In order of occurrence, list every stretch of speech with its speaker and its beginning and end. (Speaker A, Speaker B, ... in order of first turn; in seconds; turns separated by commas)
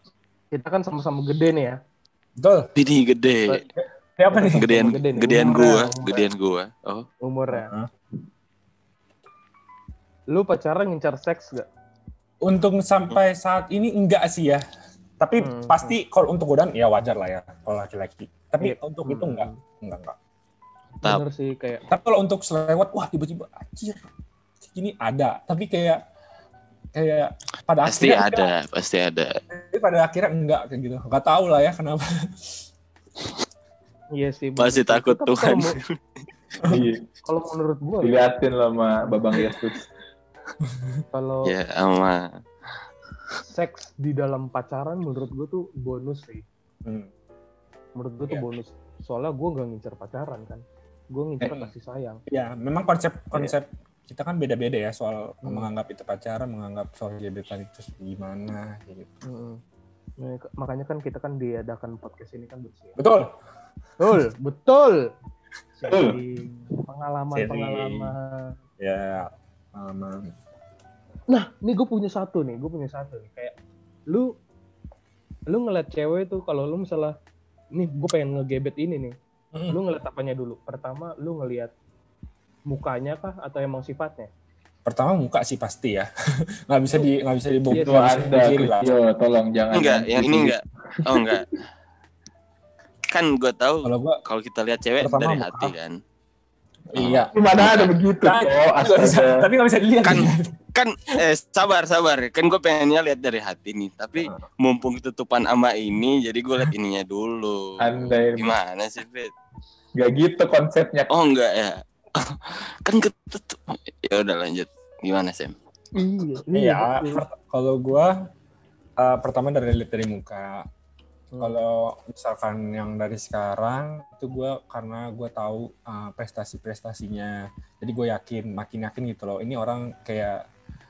Speaker A: 0.5-1.8, Speaker B: 2.4-2.7, Speaker C: 2.8-3.6, Speaker B: 3.8-4.7, Speaker A: 4.3-6.2, Speaker C: 4.5-7.1, Speaker B: 5.4-5.9, Speaker A: 7.2-7.7, Speaker B: 7.5-7.9, Speaker A: 10.3-11.7, Speaker B: 12.4-14.6, Speaker B: 15.2-20.1, Speaker A: 15.4-16.0, Speaker A: 18.6-19.6, Speaker A: 21.0-21.8, Speaker B: 21.9-24.0, Speaker B: 24.7-26.0, Speaker B: 26.9-28.5, Speaker C: 27.8-29.4, Speaker B: 29.5-32.1, Speaker A: 34.1-35.8, Speaker C: 34.6-35.9, Speaker D: 36.6-37.0, Speaker A: 37.2-38.2, Speaker D: 38.0-39.8, Speaker B: 40.6-41.0, Speaker A: 41.1-41.5, Speaker C: 41.4-42.4, Speaker A: 43.5-46.4, Speaker A: 48.0-52.2, Speaker B: 51.4-51.7, Speaker B: 52.3-59.1, Speaker A: 59.2-59.6, Speaker A: 60.2-63.0, Speaker B: 63.0-63.3, Speaker A: 64.0-65.1, Speaker A: 65.8-68.5, Speaker D: 65.9-66.2, Speaker B: 67.3-68.1, Speaker B: 68.8-70.3, Speaker A: 71.3-73.5, Speaker A: 75.5-77.1, Speaker A: 77.7-79.1, Speaker A: 79.7-81.7, Speaker A: 82.7-84.3, Speaker B: 84.8-86.1, Speaker B: 86.7-88.9, Speaker A: 87.7-88.5, Speaker D: 87.8-91.4, Speaker C: 89.7-91.5, Speaker C: 93.1-96.0, Speaker B: 93.8-94.2, Speaker B: 95.0-95.7, Speaker B: 96.9-97.3, Speaker C: 97.0-97.9, Speaker D: 97.3-99.4, Speaker B: 98.2-100.5, Speaker C: 100.0-109.3, Speaker D: 107.8-108.5, Speaker D: 110.0-111.1, Speaker C: 111.1-115.5, Speaker A: 116.0-117.2, Speaker B: 116.5-118.1, Speaker B: 119.0-120.7, Speaker A: 121.3-121.6, Speaker B: 121.4-130.4